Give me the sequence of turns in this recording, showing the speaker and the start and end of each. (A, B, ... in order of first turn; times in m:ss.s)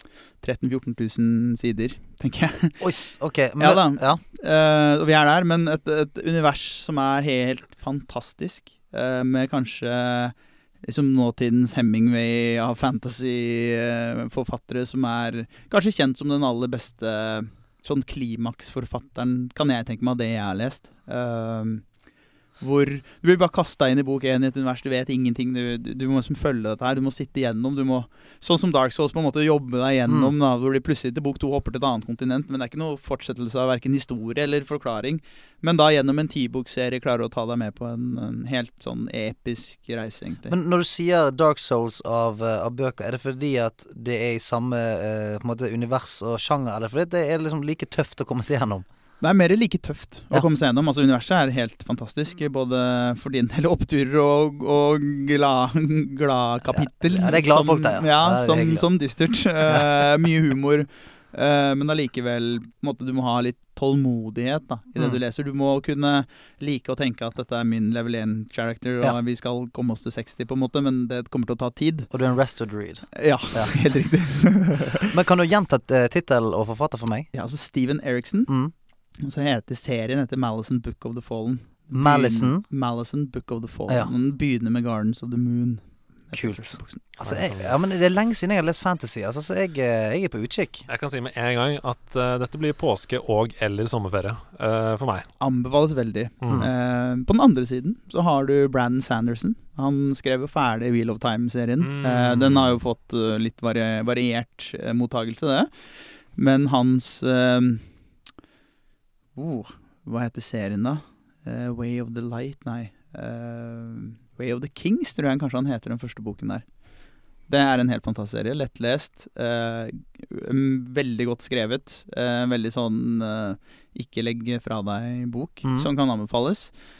0:00.4-0:02.8 A
0:02.8-0:04.2 B
0:03.6-0:21.8 A
0:22.6-0:40.6 A
0:30.1-0:30.3 B
0:40.5-0:48.8 B
0:49.2-1:12.1 A
0:56.7-0:58.9 B
0:59.7-1:00.1 B
1:12.1-1:13.8 B
1:13.2-1:15.1 A
1:15.1-1:17.3 B
1:17.3-1:18.5 A
1:18.5-1:18.7 B
1:19.2-1:27.1 A
1:21.9-1:22.6 B
1:26.3-1:30.9 B
1:27.2-1:27.7 C
1:30.9-1:35.3 C
1:35.4-1:45.7 A
1:41.8-1:42.8 C
1:46.4-1:47.9 A
1:49.4-1:56.6 A
1:57.5-2:06.7 A
2:05.6-2:05.9 B